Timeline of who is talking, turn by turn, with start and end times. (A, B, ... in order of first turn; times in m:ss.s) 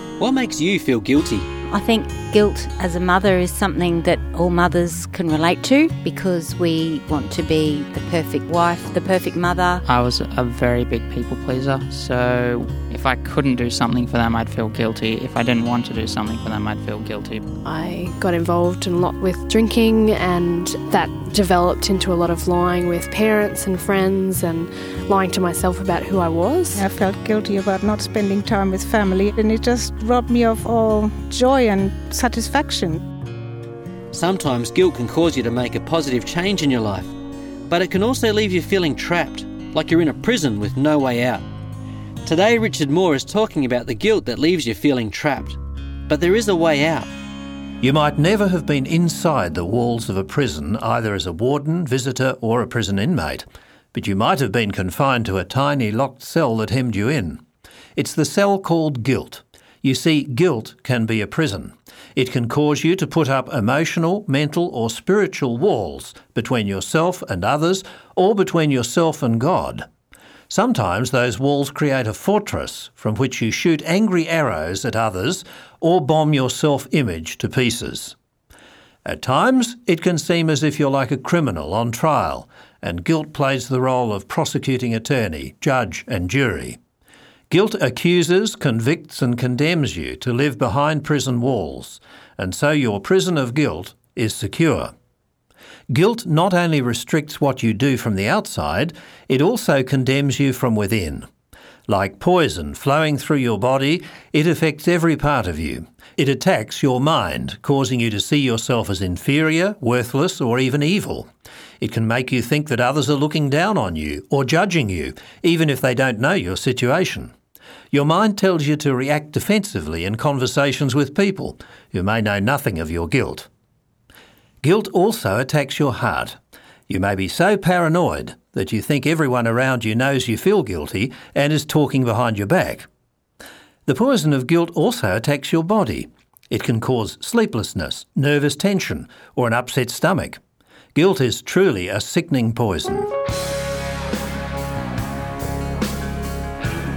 0:00.2-0:01.5 A
0:01.7-0:09.8 B
0:09.8-0:17.5 C
0:17.6-0:26.8 D
0:26.7-0:33.0 E
0:34.1-0:37.1 A
0:37.7-0:41.4 A
0:42.2-0:47.1 A
0:47.8-0:57.4 F
0:58.0-1:09.9 F
1:10.5-1:18.1 F
1:19.0-1:26.8 F
1:27.5-1:34.9 F
1:35.9-1:41.3 F
1:41.9-1:51.3 F
1:51.8-1:57.3 F
1:57.9-2:03.5 F
2:04.6-2:12.8 F
2:13.9-2:20.4 F
2:20.9-2:23.1 F